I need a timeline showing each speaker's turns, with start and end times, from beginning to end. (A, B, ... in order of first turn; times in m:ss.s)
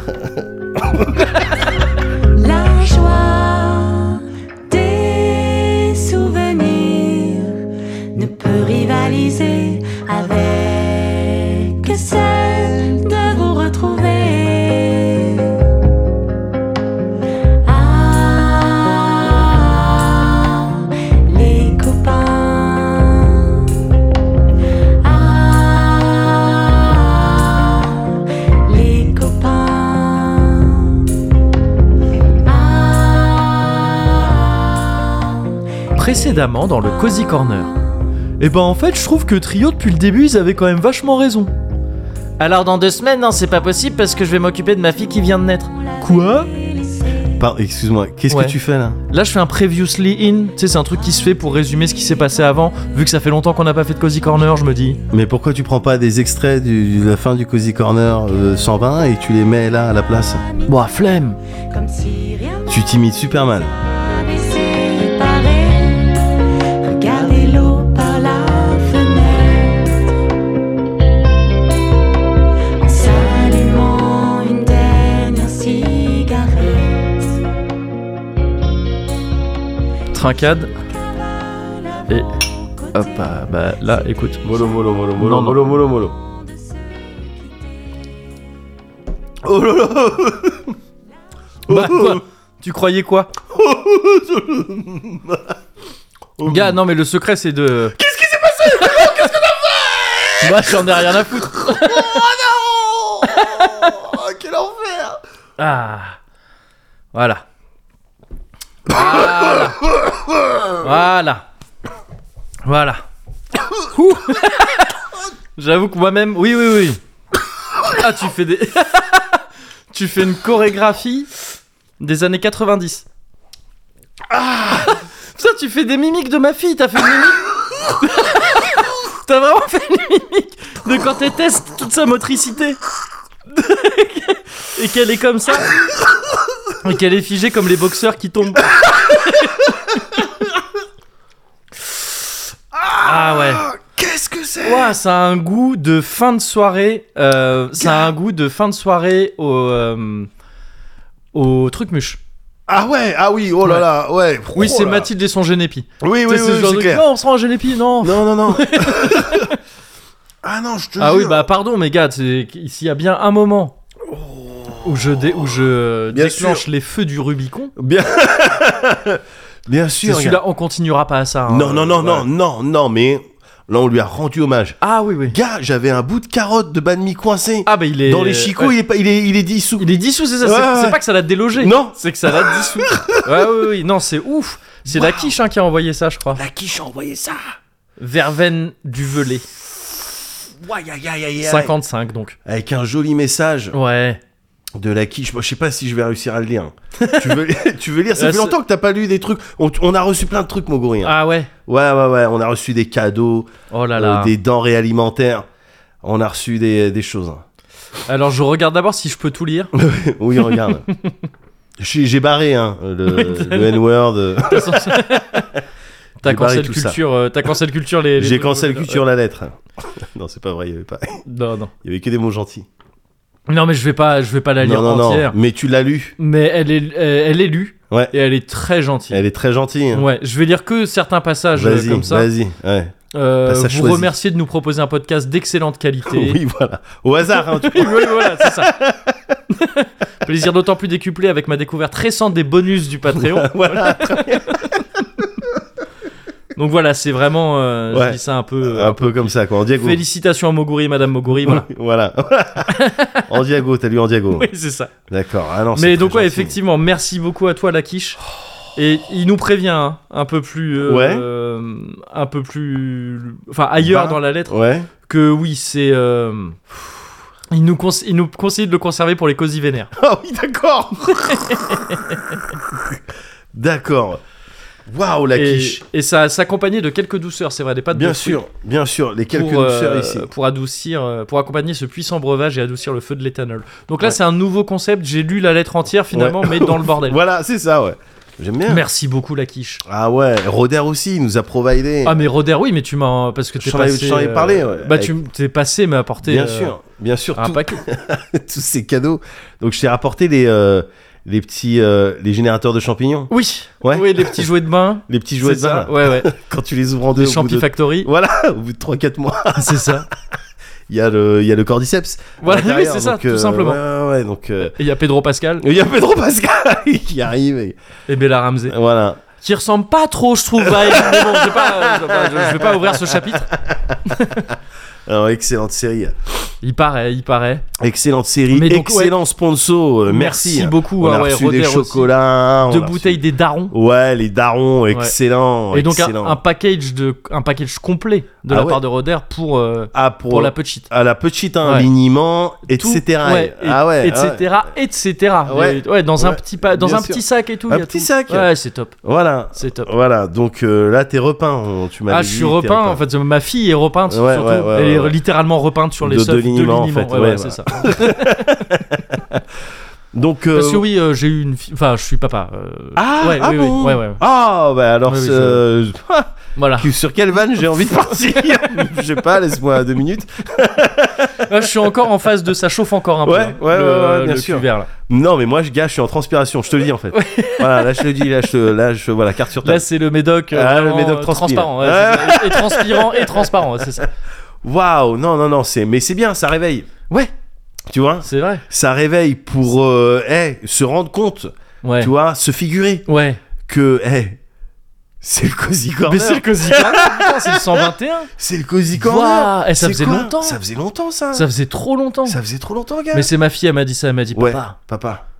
0:00.1-0:01.3 A
0:01.2-0:01.5 B
0:02.3-0:07.6 C
0:08.1-0:15.7 C
0:17.6-0:23.9 C
0:25.0-0:31.1 C
0:32.4-0:35.6 C
0:35.9-0:37.7 B
0:36.8-0:37.8 C
0:38.4-0:41.5 B
0:42.4-0:46.5 B
0:45.8-0:47.4 C
0:47.4-0:49.0 A
0:48.3-0:48.6 B
0:49.1-0:55.0 B
0:52.3-0:52.8 C
0:55.1-1:00.4 A
1:00.6-1:01.4 B
1:01.5-1:02.8 C
1:02.7-1:03.7 A
1:03.7-1:10.0 C
1:12.8-1:17.4 C
1:20.1-1:20.7 B
1:20.8-1:23.0 C
1:22.9-1:24.4 B
1:24.4-1:26.1 A
1:25.2-1:25.6 B
1:26.0-1:27.6 C
1:29.4-1:30.7 A
1:31.7-1:32.2 A
1:31.7-1:33.3 B
1:33.5-1:35.6 A
1:36.4-1:36.8 A
1:36.4-1:38.0 B
1:37.9-1:45.2 A
1:38.8-1:39.2 B
1:40.4-1:42.2 B
1:43.2-1:44.0 B
1:45.6-1:46.2 B
1:47.1-1:47.4 B
1:48.9-1:49.8 B
1:48.9-1:50.9 A
1:50.8-1:51.4 B
1:52.6-1:53.0 B
1:53.9-1:54.9 B
1:55.6-1:57.0 B
1:57.9-2:01.3 B
2:02.0-2:03.0 B
2:04.3-2:04.9 A
2:05.3-2:12.8 B
2:13.5-2:15.8 B
2:16.8-2:20.1 B
2:22.7-2:25.0 A
2:23.0-2:23.7 B
2:24.6-2:30.3 B
2:27.8-2:28.1 A
2:31.3-2:32.2 B
2:32.7-2:35.1 A
2:34.5-2:39.6 B
2:36.0-2:37.0 A
2:38.0-2:39.5 A
2:40.4-2:41.5 A
2:41.0-2:43.8 B
2:44.1-2:45.5 A
2:44.8-2:47.7 B
2:46.1-2:46.6 A
2:47.8-2:50.4 A
2:50.0-2:52.3 B
2:51.5-3:01.0 A
2:54.8-2:55.4 B
2:57.6-2:58.7 B
2:59.8-3:06.4 B
3:01.6-3:03.6 A
3:04.9-3:05.3 A
3:06.3-3:07.4 A
3:08.0-3:09.4 B
3:10.6-3:11.7 A
3:11.4-3:12.4 B
3:12.4-3:13.8 A
3:13.7-3:14.2 B
3:14.8-3:25.4 A
3:17.0-3:17.4 B
3:18.2-3:18.6 B
3:21.0-3:21.5 B
3:23.7-3:24.3 B
3:26.0-3:27.4 A
3:28.1-3:29.7 B
3:29.7-3:30.9 A
3:30.4-3:31.0 B
3:31.8-3:35.6 A
3:33.0-3:33.8 B
3:34.4-3:35.5 B
3:36.2-3:39.0 B
3:36.2-3:37.0 A
3:38.2-3:41.2 A
3:41.2-3:41.7 B
3:41.8-3:42.7 A
3:43.5-3:45.4 B
3:44.6-3:46.2 A
3:46.2-3:49.2 B
3:49.1-3:50.1 A
3:49.9-3:52.3 B
3:51.5-3:54.1 A
3:53.1-3:56.4 B
3:56.1-3:59.4 A
3:57.3-3:58.8 B
3:59.5-4:04.8 B
4:03.1-4:05.5 A
4:06.6-4:11.7 B
4:07.9-4:10.0 A
4:11.4-4:14.5 A
4:12.7-4:13.3 B
4:14.3-4:14.9 B
4:15.1-4:16.6 A
4:15.8-4:18.2 B
4:18.8-4:26.6 B
4:20.8-4:21.2 A
4:23.8-4:24.9 A
4:27.5-4:29.9 B
4:29.9-4:33.0 A
4:31.2-4:32.4 B
4:33.5-4:34.2 A
4:34.9-4:35.8 A
4:35.3-4:38.4 B
4:37.9-4:40.3 A
4:39.3-4:47.2 B
4:46.1-4:48.8 A
4:48.7-4:49.8 B
4:49.9-4:52.2 A
4:52.0-4:56.7 B
4:53.6-4:55.1 A
4:56.2-5:04.5 A
4:57.4-4:57.8 B
5:03.3-5:06.3 B
5:05.1-5:10.0 A
5:07.2-5:08.1 B
5:09.6-5:10.1 B
5:10.9-5:14.7 A
5:12.4-5:13.8 B
5:14.6-5:15.6 B
5:15.6-5:17.8 A
5:18.1-5:18.8 B
5:18.7-5:19.2 A
5:19.4-5:23.5 B
5:20.6-5:24.6 A
5:24.0-5:24.5 B
5:25.1-5:26.3 A
5:26.6-5:27.6 B
5:27.8-5:36.4 A
5:28.5-5:29.2 B
5:30.0-5:32.1 B
5:32.6-5:33.7 B
5:35.7-5:40.9 B
5:38.5-5:38.8 A
5:39.9-5:44.5 A
5:41.6-5:41.9 B
5:42.7-5:49.0 B
5:45.4-5:48.5 A
5:49.0-5:53.0 A
5:49.5-5:49.9 B
5:52.1-5:58.6 B
5:54.1-5:55.2 A
5:56.0-5:59.4 A
6:00.1-6:00.9 A
6:00.5-6:04.2 B
6:03.0-6:11.9 A
6:05.1-6:05.6 B
6:06.6-6:06.9 B
6:11.4-6:14.9 B
6:13.2-6:19.8 A
6:17.1-6:18.1 B
6:19.6-6:24.1 B
6:20.5-6:23.6 A
6:24.6-6:26.9 A
6:27.9-6:33.0 A
6:28.2-6:28.6 B
6:31.8-6:32.1 B
6:33.1-6:33.4 B
6:33.6-6:34.4 A
6:35.2-6:41.5 A
6:36.0-6:38.3 B
6:38.9-6:40.6 B
6:41.3-6:42.4 B
6:42.2-6:43.3 A
6:43.1-6:44.8 B
6:44.3-6:45.2 A